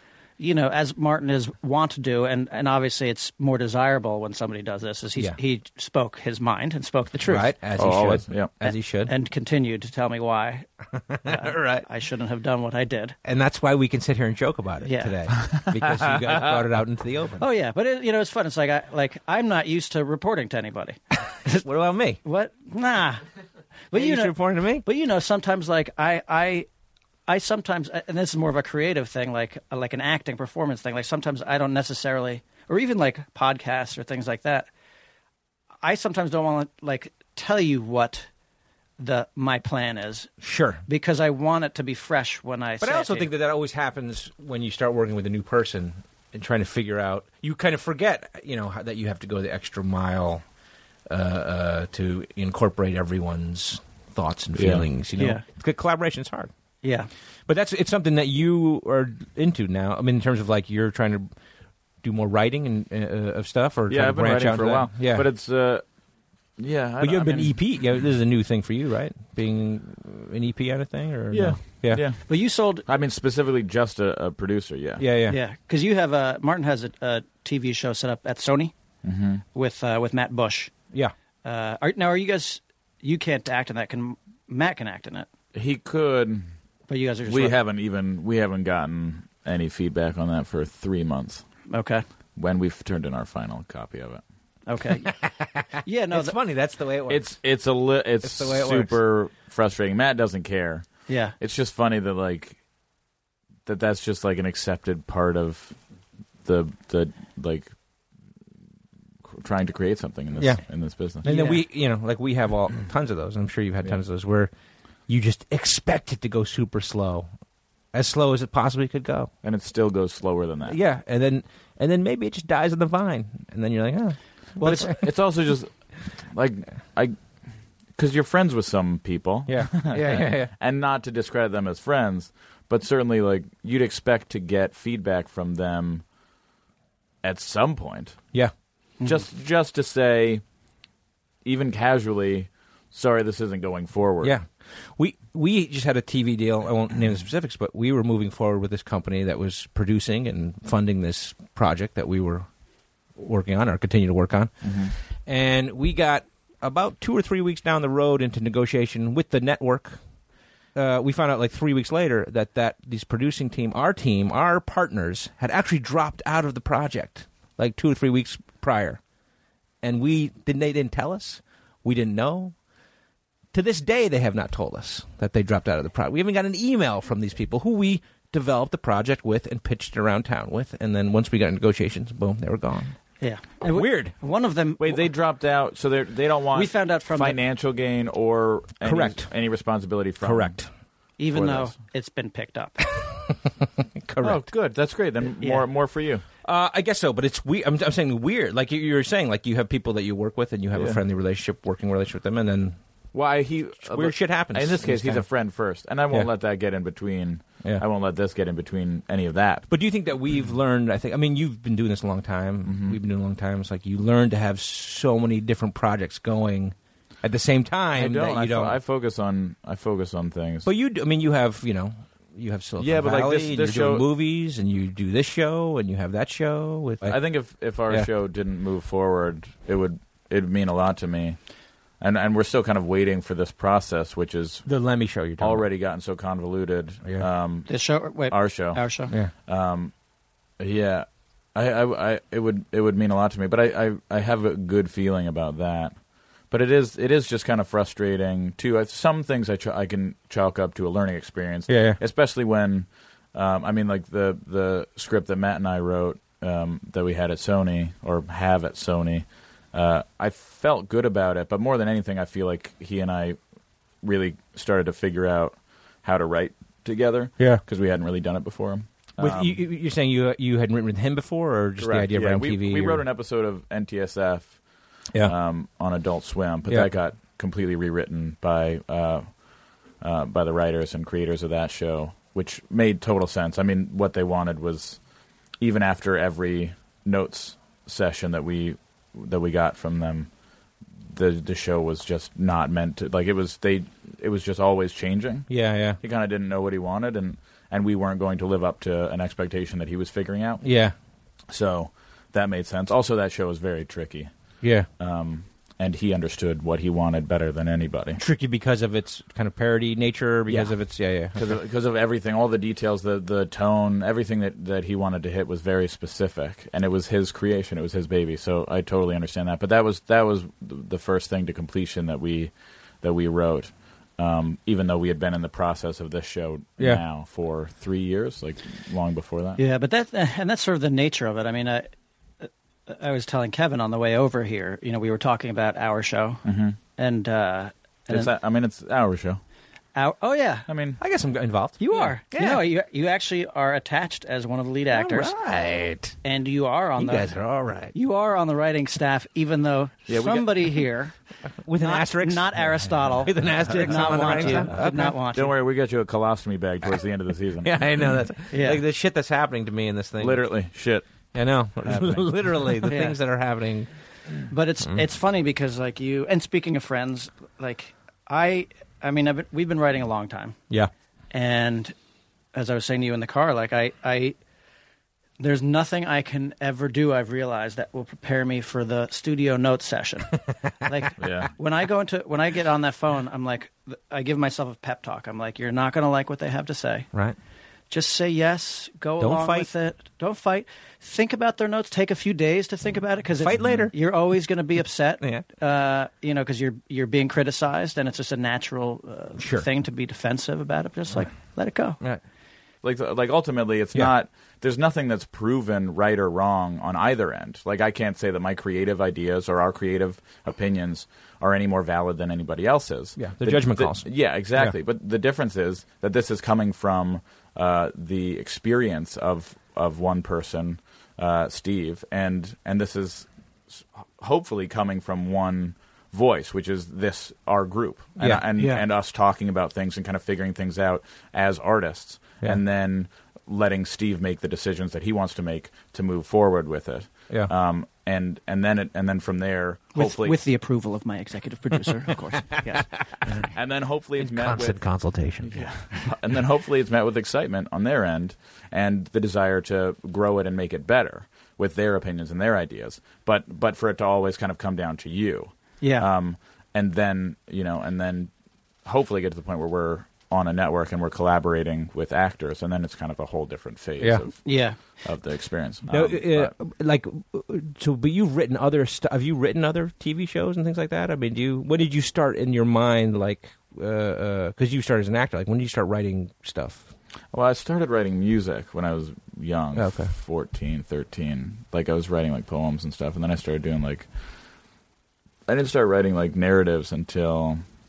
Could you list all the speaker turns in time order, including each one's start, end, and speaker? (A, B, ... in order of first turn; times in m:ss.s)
0:00.4-0:07.5 A
0:07.2-0:09.1 B
0:07.8-0:08.5 C
0:08.6-0:10.7 A
0:11.1-0:11.9 B
0:11.2-0:13.2 A
0:13.2-0:17.4 B
0:14.8-0:15.1 A
0:15.4-0:16.6 C
0:17.4-0:21.6 A
0:21.6-0:22.2 B
0:22.2-0:23.2 A
0:23.9-0:26.7 A
0:23.9-0:24.8 B
0:27.3-0:34.7 A
0:35.8-0:38.3 A
0:39.0-0:40.3 A
0:40.4-0:40.8 B
0:40.9-0:43.3 A
0:42.8-0:50.4 B
0:51.1-0:56.5 B
0:54.5-0:54.8 C
0:55.2-0:55.4 A
0:56.8-0:57.1 A
0:57.5-1:01.3 B
1:02.0-1:05.2 B
1:03.9-1:05.8 C
1:06.6-1:07.6 C
1:07.0-1:12.0 B
1:11.3-1:12.3 C
1:12.3-1:12.8 A
1:12.9-1:15.0 C
1:15.0-1:15.4 B
1:15.3-1:18.7 A
1:19.0-1:19.4 C
1:19.5-1:20.7 A
1:21.4-1:25.3 A
1:25.5-1:26.4 C
1:26.9-1:27.6 A
1:27.2-1:31.4 C
1:31.7-1:32.0 A
1:32.4-1:34.2 C
1:34.7-1:35.1 A
1:35.0-1:37.3 B
1:35.8-1:36.4 A
1:37.1-1:42.6 C
1:38.2-1:39.0 B
1:41.1-1:41.3 A
1:43.6-1:45.8 C
1:46.4-1:47.7 C
1:49.2-1:51.2 C
1:51.2-1:54.5 B
1:51.2-1:51.6 A
1:55.1-1:57.3 B
1:57.9-1:59.3 B
1:59.4-2:00.8 C
2:00.7-2:05.0 B
2:04.6-2:07.2 C
2:08.0-2:16.0 C
2:09.5-2:10.5 B
2:17.2-2:18.2 C
2:19.0-2:20.4 C
2:21.4-2:24.3 C
2:24.2-2:32.4 B
2:33.2-2:40.0 B
2:34.6-2:34.9 C
2:40.7-2:49.0 B
2:49.8-2:52.5 B
2:53.5-3:03.0 B
3:03.2-3:05.0 A
3:03.7-3:04.1 B
3:04.8-3:10.6 C
3:06.5-3:07.4 A
3:08.8-3:09.3 B
3:10.2-3:10.7 B
3:11.2-3:12.8 A
3:11.3-3:11.7 C
3:14.0-3:14.4 B
3:14.2-3:16.2 C
3:16.4-3:22.8 B
3:20.7-3:21.0 C
3:23.1-3:29.7 C
3:23.8-3:25.2 B
3:29.7-3:38.8 B
3:32.6-3:33.0 C
3:37.9-3:40.7 C
3:40.6-3:47.2 B
3:42.8-3:44.0 C
3:47.0-3:51.4 C
3:52.0-3:54.7 C
3:54.6-3:55.6 B
3:55.4-3:59.9 C
3:57.7-3:59.1 A
4:00.6-4:06.0 C
4:06.5-4:23.4 C
4:11.7-4:12.0 B
4:24.0-4:29.6 C
4:29.2-4:33.0 B
4:31.8-4:34.6 C
4:35.2-4:39.4 C
4:40.0-4:45.0 C
4:45.6-4:50.3 C
4:51.0-5:00.6 C
4:55.5-4:56.0 B
5:00.6-5:00.9 B
5:01.5-5:08.2 C
5:04.6-5:04.9 B
5:08.2-5:11.4 B
5:10.5-5:10.8 C
5:11.3-5:29.6 C
5:29.6-5:31.9 A
5:32.4-5:36.4 A
5:36.4-5:36.8 C
5:37.0-5:38.3 A
5:38.1-5:39.4 C
5:39.9-5:40.7 A
5:40.7-5:41.0 C
5:41.0-5:42.6 B
5:41.8-5:45.3 A
5:44.9-5:46.2 B
5:46.2-5:47.3 A
5:47.0-5:47.9 B
5:47.9-5:51.1 A
5:50.1-5:50.6 C
5:51.6-5:52.6 B
5:51.8-5:55.5 A
5:53.2-5:55.2 B
5:55.3-5:57.8 C
5:57.6-6:00.5 B
5:58.5-5:58.8 A
6:00.2-6:01.3 C
6:01.3-6:03.9 B
6:01.8-6:02.7 C
6:02.9-6:03.2 A
6:04.5-6:10.6 A
6:11.3-6:11.9 A
6:12.5-6:14.4 A
6:15.4-6:27.1 A
6:21.2-6:21.5 C
6:27.9-6:42.0 A
6:29.2-6:29.7 B
6:33.4-6:33.9 B
6:39.4-6:39.6 B
6:42.8-7:20.4 C
6:53.2-6:54.7 B
7:08.6-7:08.8 A
7:19.9-7:22.9 A
7:23.4-7:24.8 C
7:24.2-7:25.7 B
7:25.4-7:38.3 C
7:35.8-7:36.1 A
7:38.8-7:46.5 C
7:44.4-7:44.8 A
7:45.9-7:56.9 B
7:57.3-8:04.1 C
7:59.8-8:00.1 B
8:05.5-8:07.6 C